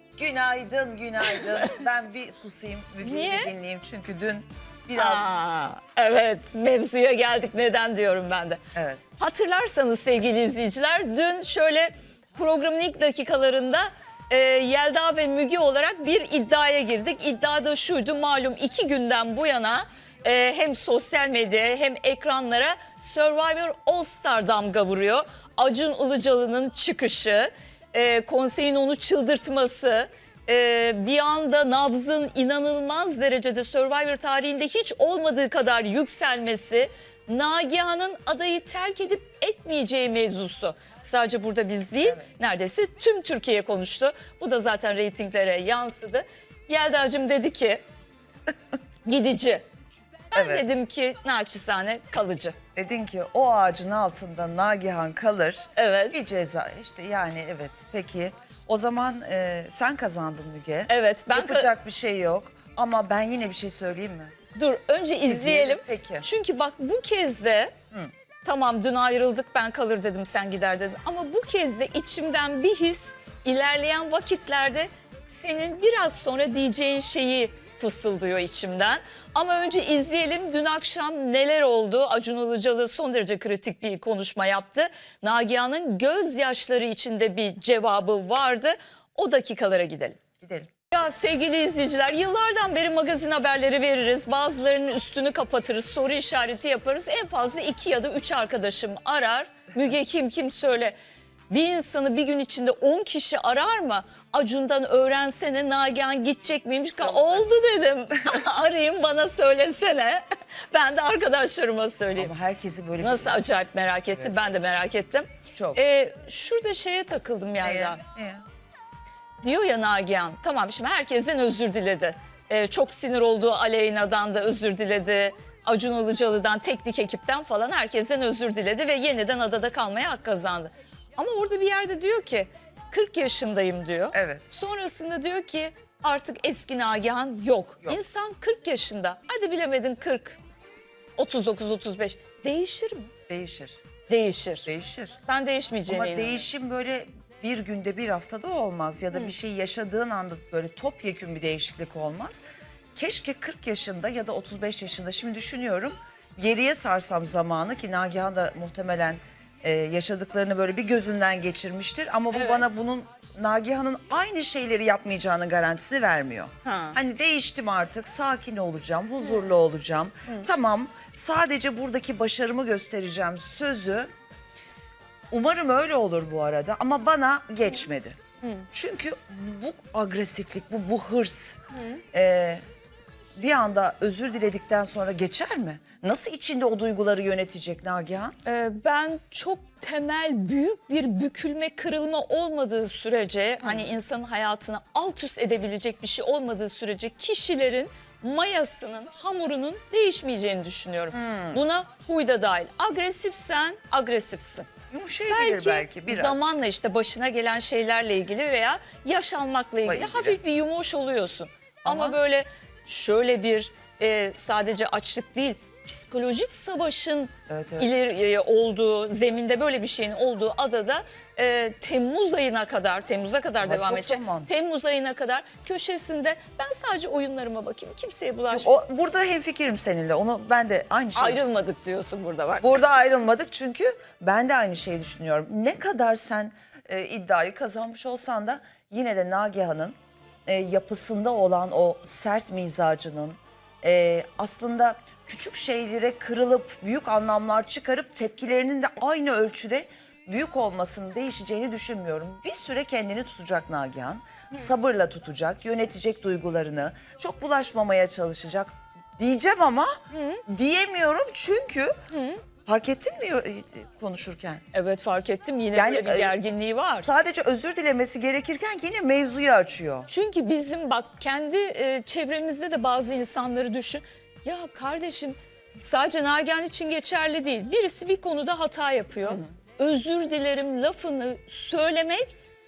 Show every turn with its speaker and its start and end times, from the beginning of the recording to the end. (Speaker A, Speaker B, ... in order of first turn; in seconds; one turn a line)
Speaker A: 0.2-5.4
Speaker B: 1.3-1.8
Speaker B: 3.0-3.5
Speaker B: 5.0-8.6
Speaker A: 8.7-9.0
Speaker B: 9.2-47.8
Speaker B: 49.0-49.6
Speaker B: 50.3-52.6
Speaker A: 50.4-50.6
Speaker A: 52.8-64.3
Speaker B: 55.8-56.2
Speaker B: 60.9-61.7
Speaker B: 64.5-67.7
Speaker A: 65.3-66.2
Speaker B: 68.4-90.2
Speaker A: 90.4-90.7
Speaker B: 90.9-101.0
Speaker B: 101.5-112.3
Speaker A: 107.0-107.5
Speaker A: 112.2-113.4
Speaker B: 113.0-118.0
Speaker A: 115.6-115.8
Speaker A: 117.6-118.4
Speaker B: 119.4-140.4
Speaker A: 134.1-134.4
Speaker B: 141.2-143.1
Speaker A: 143.3-143.8
Speaker B: 144.1-144.7
Speaker A: 144.7-145.2
Speaker B: 145.3-146.4
Speaker A: 145.9-152.4
Speaker A: 152.9-174.1
Speaker B: 162.3-162.6
Speaker B: 166.7-167.0
Speaker A: 175.3-178.2
Speaker A: 178.7-181.6
Speaker A: 182.1-182.6
Speaker A: 183.4-188.3
Speaker B: 188.4-204.7
Speaker A: 193.6-193.9
Speaker A: 201.1-201.6
Speaker A: 204.9-206.5
Speaker B: 205.3-228.8
Speaker A: 209.9-210.4
Speaker A: 211.8-212.2
Speaker A: 217.5-217.9
Speaker A: 223.6-224.5
Speaker A: 228.5-231.4
Speaker B: 231.2-232.8
Speaker A: 232.6-239.9
Speaker A: 240.5-261.9
Speaker B: 260.1-260.4
Speaker B: 262.1-262.4
Speaker A: 262.7-264.6
Speaker B: 264.7-267.1
Speaker A: 265.7-266.4
Speaker A: 267.0-270.1
Speaker B: 270.1-282.4